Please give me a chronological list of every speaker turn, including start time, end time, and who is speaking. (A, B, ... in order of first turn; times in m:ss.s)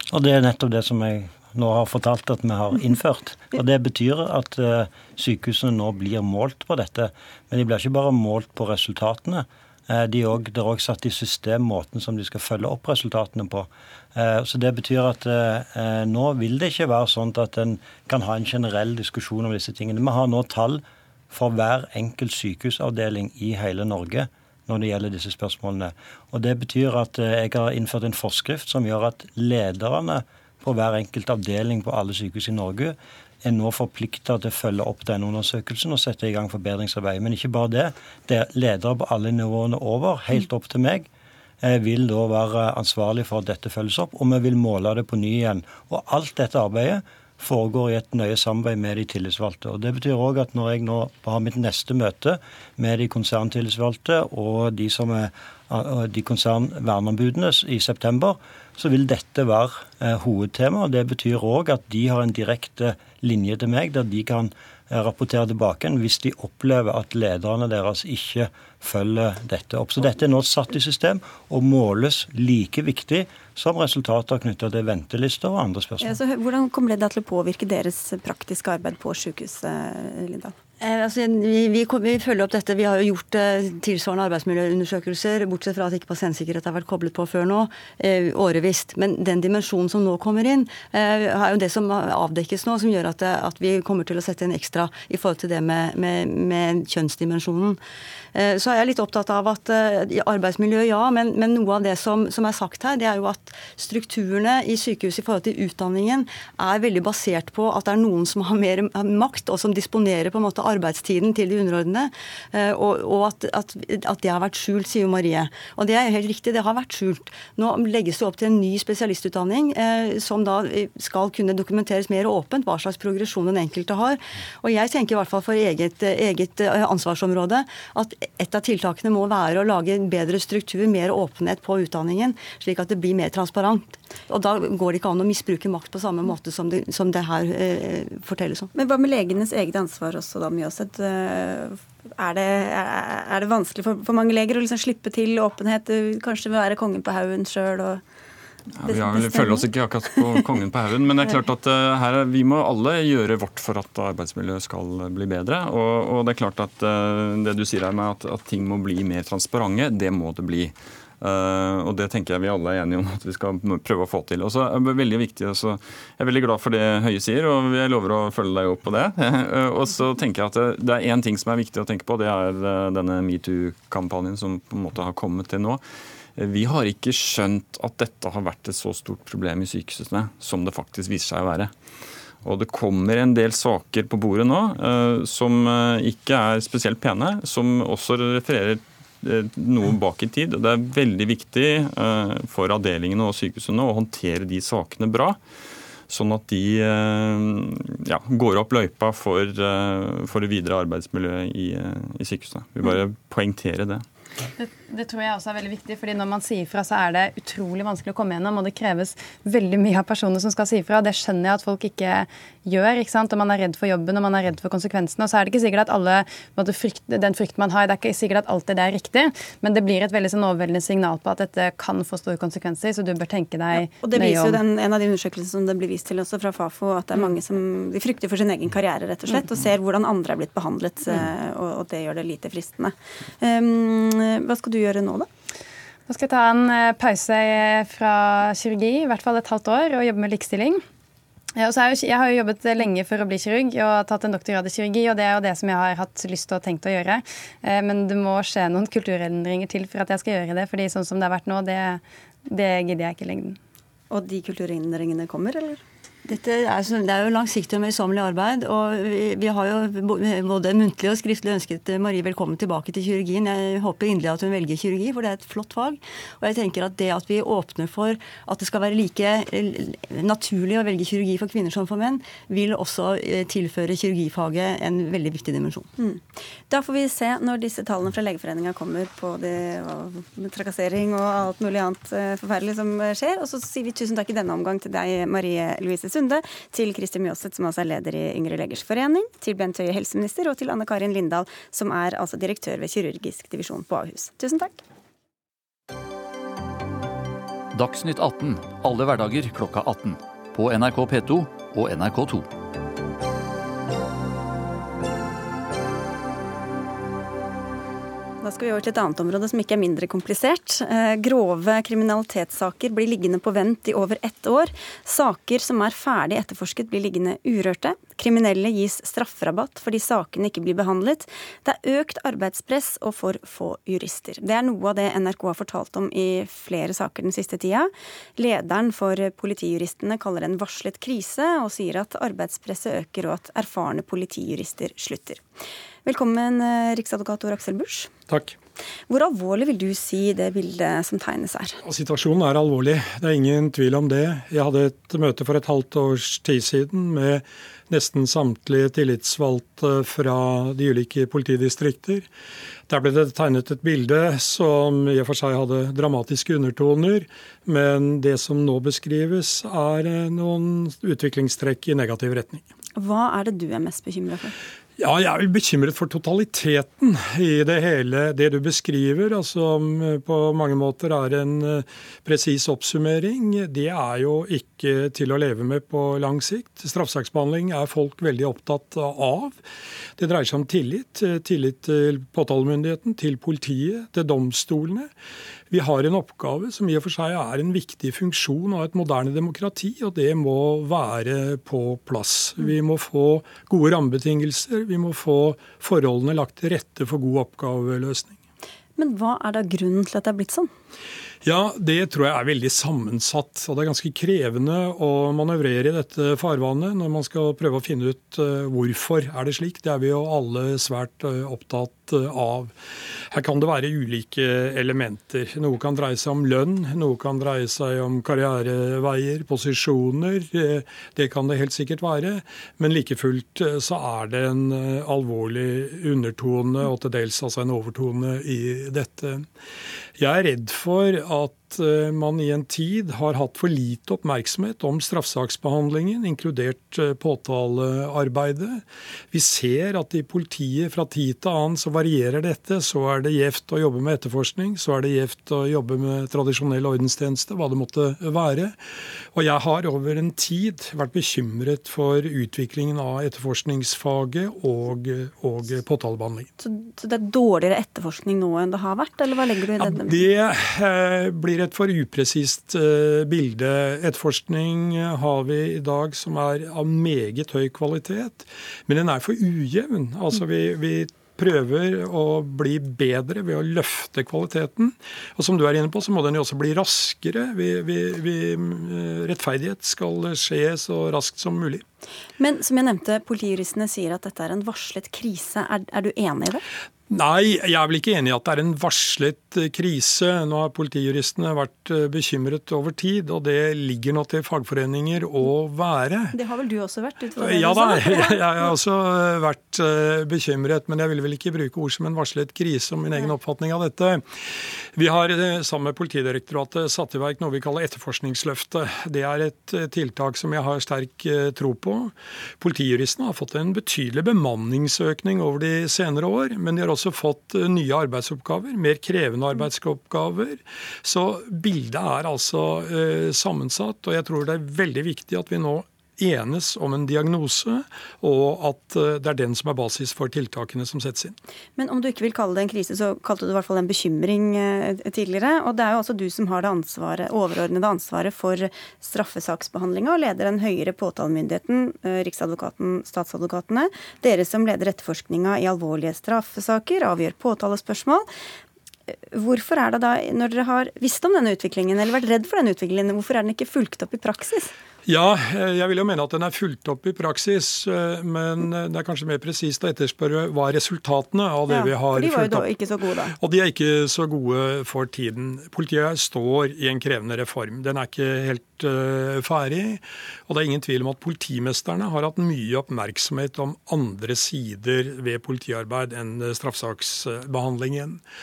0:00.1-0:41.1 A
0:41.6-1:16.2 A
1:16.0-1:20.5 B
1:20.8-1:37.8 C
1:38.3-2:18.7 C
2:18.7-2:28.0 B
2:28.8-2:55.8 D
2:28.8-2:29.6 B
2:56.4-3:01.7 D
3:02.4-3:15.4 D
3:16.1-3:24.0 D
3:24.6-3:44.6 E
3:44.0-3:55.3 B
3:56.1-4:00.8 E
4:01.6-4:13.6 E
4:14.1-4:15.8 B
4:16.3-4:35.9 C
4:36.0-4:54.8 B
4:57.7-5:02.4 F
5:08.4-5:35.4 B
5:36.0-5:38.1 B
5:38.3-5:38.5 G
5:39.1-5:41.8 B
5:41.8-5:52.3 G
5:52.9-6:02.6 G
6:03.0-6:04.5 B
6:05.0-6:19.6 G
6:20.2-6:25.1 G
6:25.7-6:38.4 G
6:39.0-6:40.7 B
6:41.4-6:52.7 G
6:53.3-7:09.5 G
7:10.2-7:28.7 G
7:29.3-7:36.5 G
7:36.6-7:40.2 B
7:39.8-8:01.8 G
8:02.4-8:06.6 B
8:07.1-8:16.4 G
8:16.3-8:18.7 B
8:17.4-8:24.2 G
8:24.9-8:51.4 G
8:51.8-9:08.3 B
9:09.1-9:14.7 B
9:15.0-9:22.7 G
9:21.7-9:23.4 B
9:23.4-9:38.2 G